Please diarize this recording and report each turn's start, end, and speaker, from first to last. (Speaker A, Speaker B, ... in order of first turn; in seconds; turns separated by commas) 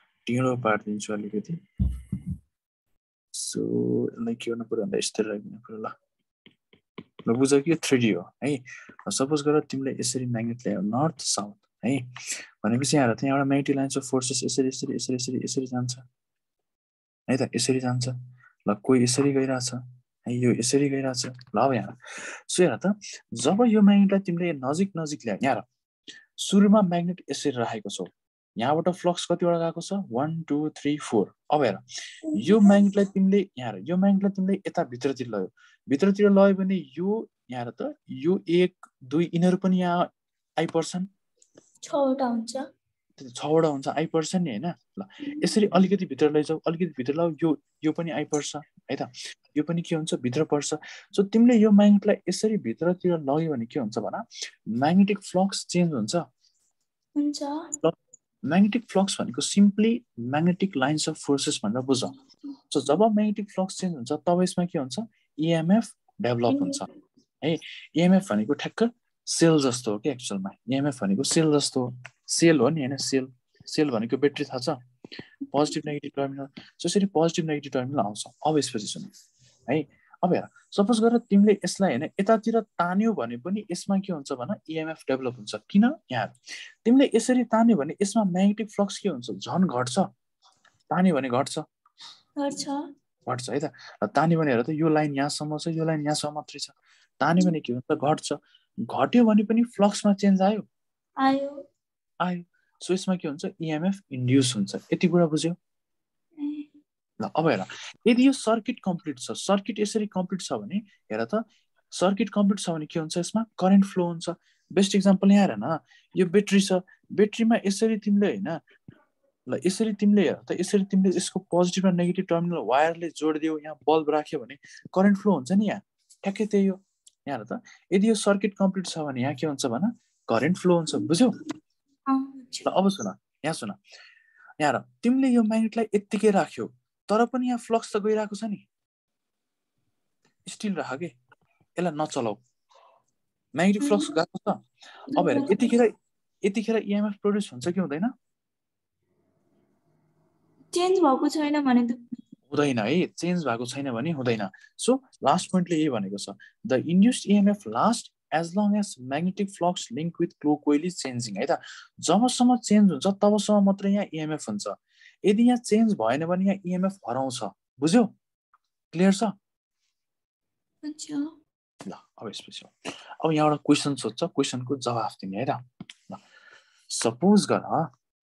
Speaker A: 0.3-1.6, Speaker A: 3.3-5.9, Speaker A: 7.3-16.1, Speaker A: 17.3-25.6, Speaker A: 26.4-41.1, Speaker B: 32.3-32.9, Speaker B: 41.8-42.6, Speaker A: 43.2-56.3, Speaker B: 45.3-45.7, Speaker B: 57.2-57.7, Speaker A: 57.8-62.2, Speaker A: 62.7-66.9, Speaker B: 66.5-66.8, Speaker A: 67.4-74.8, Speaker A: 75.5-79.1, Speaker A: 79.7-86.3, Speaker A: 86.8-90.1, Speaker A: 90.9-91.7, Speaker B: 92.4-92.9, Speaker A: 93.3-100.7, Speaker B: 101.2-101.7, Speaker A: 102.2-105.6, Speaker B: 106.4-106.7, Speaker A: 107.2-118.6, Speaker A: 119.5-131.4, Speaker B: 132.1-132.7, Speaker A: 132.7-133.8, Speaker A: 134.6-138.6, Speaker A: 140.5-141.1, Speaker A: 141.8-142.4, Speaker A: 143.6-148.1, Speaker B: 143.8-144.1, Speaker B: 145.1-145.8, Speaker B: 150.7-152.0, Speaker A: 152.5-168.1, Speaker A: 168.9-169.3, Speaker B: 170.8-171.3, Speaker A: 171.9-176.2, Speaker A: 176.9-177.9